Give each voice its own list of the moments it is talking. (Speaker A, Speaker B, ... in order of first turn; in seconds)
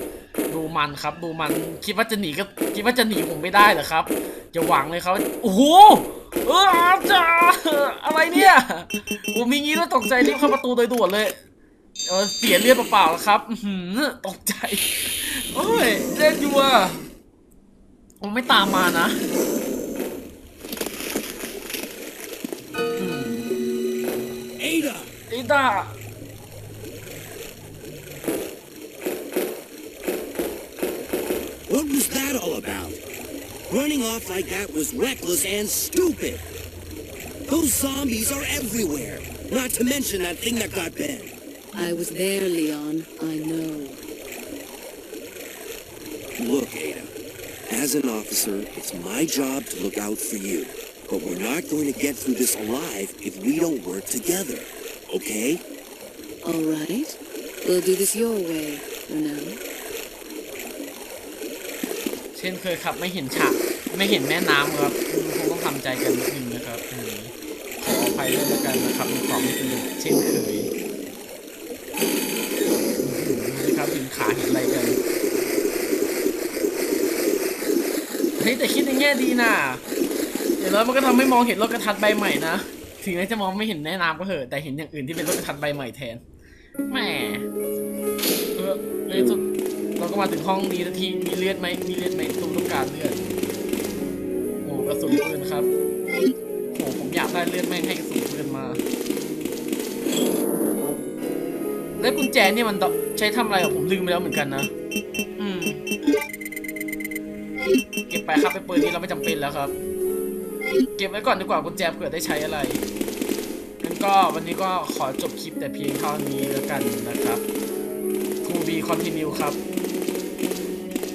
Speaker A: 0.5-11.3, 12.1-17.1, 18.2-19.2, 23.0-23.5, 25.3-25.9, 62.4-70.7, 73.0-75.0, 78.4-79.8, 80.6-86.2, 86.9-87.5, 88.6-89.4, 90.0-93.2, 94.6-95.7, 96.7-98.8, 102.0-104.7, 105.4-105.8, 108.1-109.8, 111.0-112.8, 113.8-117.4, 118.4-119.6
Speaker B: 24.6-25.1, 31.7-33.0, 33.7-36.4, 37.5-41.3, 46.4-47.1, 47.7-55.6
Speaker C: 41.7-44.0, 56.4-59.6